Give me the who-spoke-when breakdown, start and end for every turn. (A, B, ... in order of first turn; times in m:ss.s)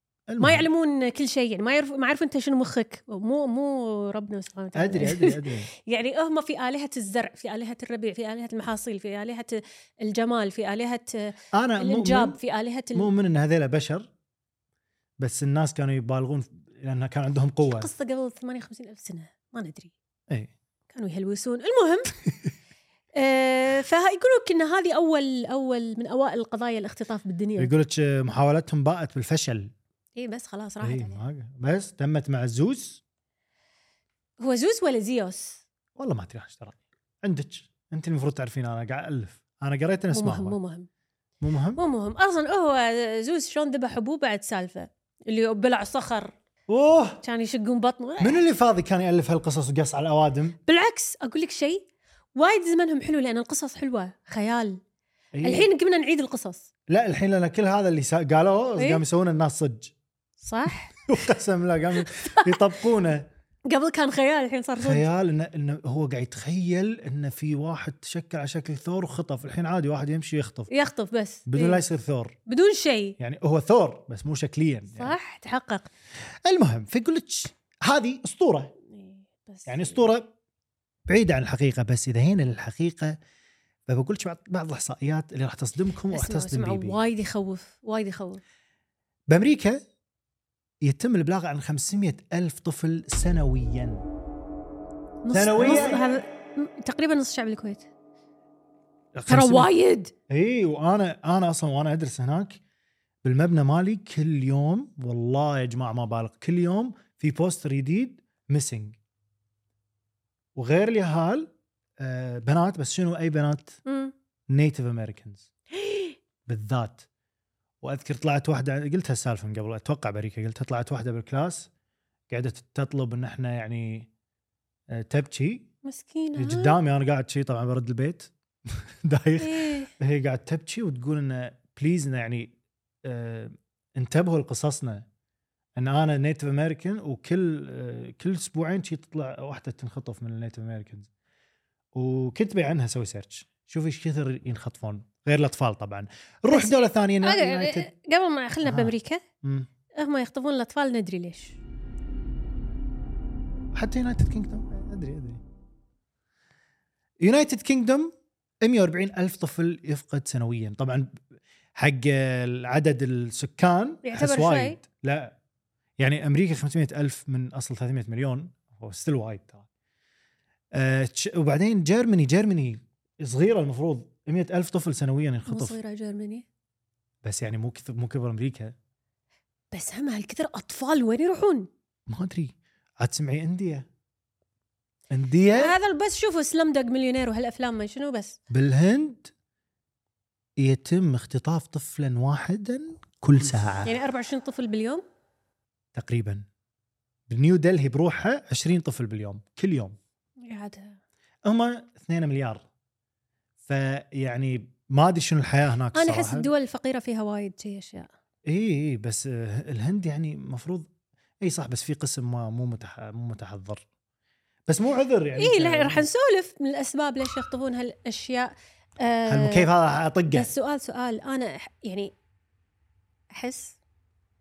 0:00.3-0:00.7 A
0:00.4-0:13.1 B
0:04.7-0:05.7 A
0:11.5-0:12.4 A
0:12.9-0:14.1 A
0:15.2-0:17.9 A
0:17.8-0:19.9 B
0:20.9-0:22.1 B
0:23.2-0:27.7 B
0:27.6-0:29.7 A
0:30.2-0:31.2 B
0:30.8-0:33.0 A
0:34.4-0:35.6 B
0:36.0-0:40.6 A
0:40.1-0:40.9 B
0:41.4-0:41.8 A
0:41.8-0:46.3 B
0:46.7-0:47.2 A
0:47.2-0:48.4 B
0:48.2-0:50.6 A
0:50.7-0:51.8 B
0:52.4-0:54.8 B
0:55.3-0:55.7 A
0:55.4-0:56.7 B
0:56.9-0:59.9 A
0:58.8-0:59.0 B
1:00.4-1:00.9 B
1:01.1-1:03.3 A
1:03.7-1:05.1 B
1:04.8-1:10.7 A
1:10.7-1:11.8 B
1:11.5-1:12.3 A
1:12.5-1:13.2 B
1:13.2-1:15.1 A
1:14.9-1:15.9 B
1:16.4-1:18.7 A
1:18.9-1:20.0 B
1:19.7-1:20.3 A
1:21.1-1:23.2 A
1:23.9-1:27.0 A
1:26.1-1:28.4 B
1:29.3-1:29.8 A
1:30.8-1:34.0 A
1:35.2-1:37.9 B
1:35.3-1:36.0 A
1:39.1-1:39.7 A
1:39.3-1:40.1 B
1:40.3-1:42.6 A
1:43.2-1:49.0 A
1:50.5-1:53.8 A
1:53.8-1:54.1 B
1:54.5-1:55.5 A
1:55.8-1:56.2 B
1:56.4-1:57.0 A
1:57.8-2:01.7 A
2:02.3-2:04.1 A
2:04.9-2:05.7 A
2:05.8-2:06.8 B
2:06.4-2:15.0 A
2:09.4-2:09.9 B
2:15.8-2:21.1 A
2:21.9-2:27.9 A
2:26.5-2:29.2 B
2:28.6-2:29.7 A
2:30.0-2:31.6 B
2:33.7-2:35.4 A
2:37.2-2:41.2 A
2:41.8-2:45.4 A
2:44.0-2:44.8 B
2:46.0-2:49.6 A
2:50.7-2:55.8 A
2:55.5-2:56.4 B
2:57.2-2:58.7 A
2:59.7-3:01.7 B
3:02.1-3:03.9 A
3:05.1-3:05.7 A
3:05.5-3:08.4 B
3:08.5-3:09.3 A
3:10.6-3:13.9 A
3:13.8-3:15.0 B
3:15.9-3:16.4 A
3:17.3-3:20.0 A
3:20.4-3:21.0 B
3:21.4-3:22.6 A
3:23.6-3:26.5 A
3:25.9-3:28.1 B
3:28.4-3:30.9 A
3:31.4-3:33.8 A
3:34.7-3:36.0 A
3:35.4-3:39.7 B
3:39.3-3:40.5 A
3:40.3-3:42.1 B
3:43.3-3:43.8 B